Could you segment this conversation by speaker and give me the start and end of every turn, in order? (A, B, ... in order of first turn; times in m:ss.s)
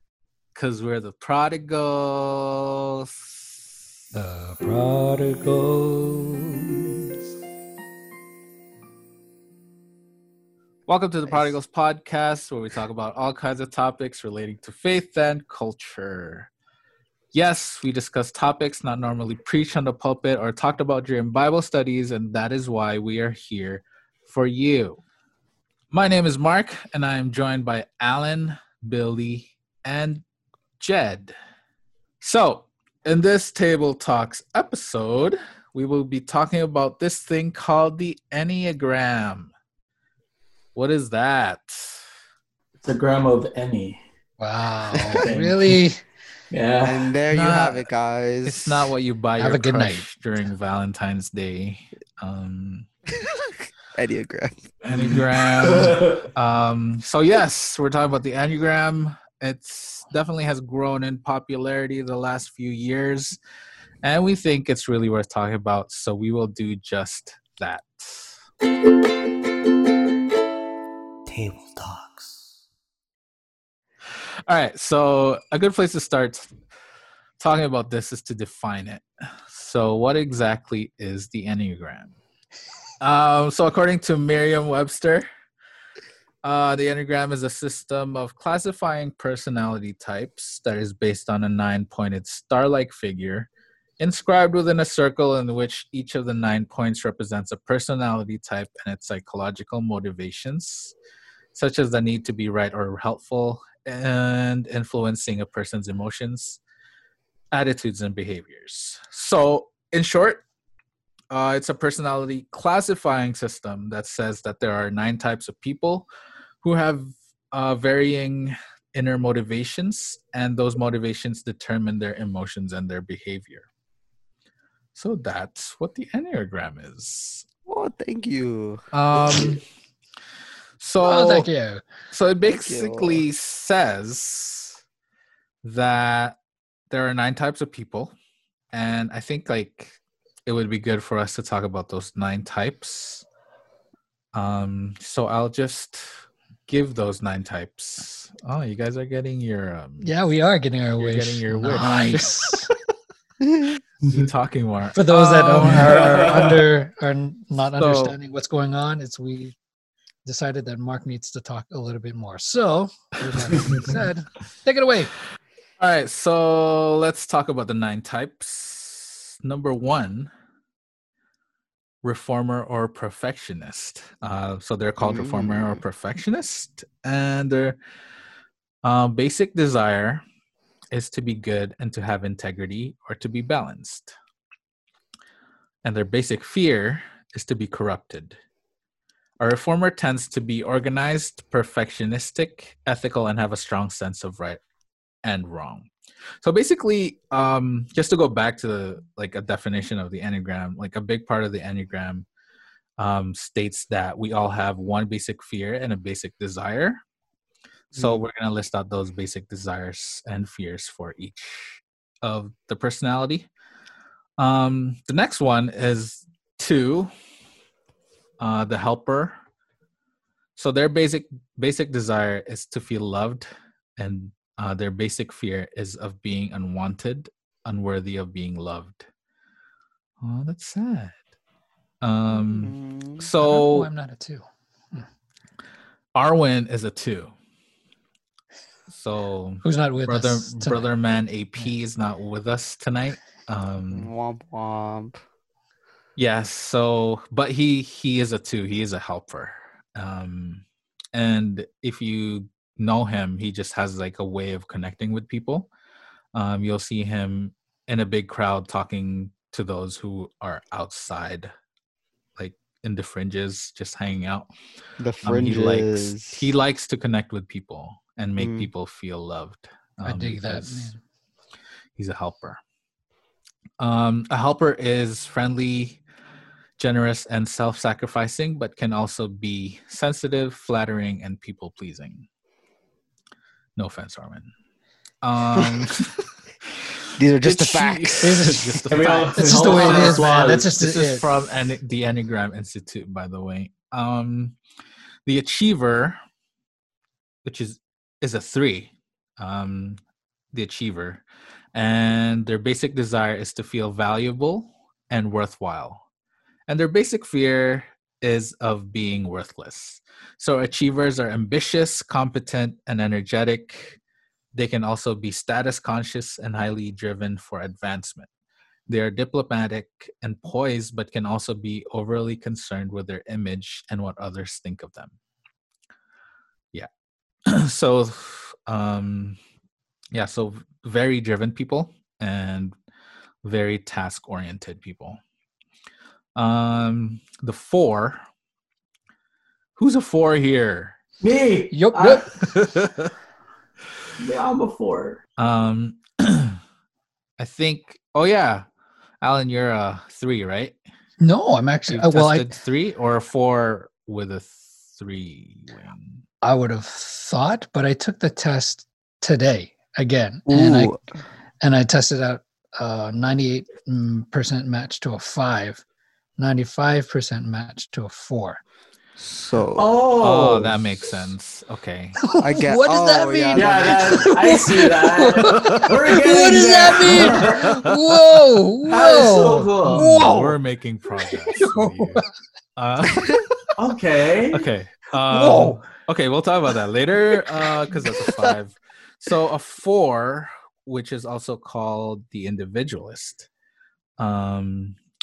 0:00.6-0:03.4 A
0:04.1-0:07.1 B
0:10.9-0:16.5 A
0:17.3-0:25.0 A
0:25.9-0:30.2 A
0:30.8-0:31.3 A
0:32.2-0:39.5 A
0:40.8-0:42.0 A
0:42.8-0:44.0 C
0:44.4-0:46.0 B
0:44.9-0:45.2 D
0:45.2-0:45.8 C
0:46.5-0:47.1 C
0:46.8-0:48.9 D
0:47.3-0:47.8 A
0:48.4-0:52.9 A
0:49.4-0:50.1 B
0:53.2-0:55.2 D
0:54.8-1:03.4 A
0:55.6-0:56.2 C
1:04.0-1:08.4 A
1:14.5-1:16.6 A
1:17.4-1:22.2 A
1:23.0-1:25.3 A
1:26.4-1:41.0 A
1:41.5-1:46.6 A
1:47.5-1:50.4 A
1:51.3-1:56.1 A
1:56.6-2:03.7 A
2:05.0-2:07.5 A
2:07.7-2:09.6 D
2:08.9-2:09.6 A
2:10.8-2:11.5 A
2:11.0-2:11.8 B
2:12.1-2:14.8 A
2:12.4-2:13.2 D
2:15.6-2:16.4 A
2:16.9-2:18.1 A
2:18.7-2:23.3 A
2:24.3-2:30.2 A
2:30.0-2:32.7 B
2:31.0-2:32.7 A
2:33.4-2:33.8 D
2:34.1-2:36.3 A
2:34.9-2:39.6 B
2:36.0-2:36.6 C
2:37.8-2:38.2 A
2:40.2-2:45.1 B
2:43.6-2:43.9 C
2:45.8-2:50.3 A
2:52.0-2:57.8 A
2:55.0-2:55.8 D
2:58.8-3:00.2 A
3:00.9-3:04.1 A
3:05.8-3:08.4 A
3:09.4-3:14.6 A
3:15.2-3:15.9 A
3:16.4-3:22.3 A
3:23.0-3:27.0 A
3:27.9-3:28.2 D
3:27.9-3:33.5 A
3:34.4-3:37.1 A
3:38.4-3:39.4 A
3:40.6-3:49.1 A
3:50.2-3:51.2 A
3:52.0-3:53.9 A
3:52.3-3:53.2 D
3:53.4-3:55.1 B
3:56.2-3:57.3 A
3:58.9-4:04.1 A
3:59.6-4:00.9 B
4:03.9-4:05.2 D
4:06.2-4:15.7 A
4:16.3-4:21.5 A
4:22.4-4:24.5 A
4:25.0-4:26.4 D
4:25.2-4:31.0 A
4:28.4-4:28.7 D
4:30.0-4:31.0 B
4:32.0-4:32.6 A
4:33.8-4:36.0 A
4:36.8-4:42.3 A
4:43.8-4:44.5 A
4:45.2-4:46.2 A
4:47.2-4:48.5 D
4:47.4-4:54.6 A
4:48.2-4:48.8 B
4:48.9-4:50.7 C
4:49.4-4:51.2 B
4:55.3-4:56.2 A
4:57.4-5:00.0 A
5:00.5-5:06.0 A
5:06.7-5:14.0 A
5:14.5-5:18.3 A
5:18.9-5:25.1 A
5:27.5-5:29.4 A
5:30.1-5:32.8 A
5:33.4-5:35.2 A
5:36.4-5:38.2 A
5:39.8-5:41.0 A
5:41.2-5:42.3 C
5:41.7-5:42.3 B
5:42.4-5:43.1 A
5:44.2-5:45.2 C
5:45.4-5:46.6 A
5:47.4-5:48.7 A
5:49.2-5:50.8 A
5:51.2-5:52.5 B
5:51.9-5:56.2 A
5:56.4-6:01.0 B
6:00.5-6:01.0 D
6:01.6-6:05.8 B
6:06.4-6:08.6 B
6:09.2-6:09.9 D
6:09.8-6:10.8 C
6:10.2-6:12.2 A
6:12.3-6:20.6 B
6:12.4-6:14.4 D
6:13.5-6:17.8 C
6:15.5-6:15.9 A
6:17.6-6:17.9 A
6:18.9-6:20.1 C
6:19.9-6:23.4 A
6:21.6-6:22.1 B
6:23.8-6:24.7 C
6:24.5-6:33.5 A
6:25.3-6:25.8 B
6:34.2-6:35.0 A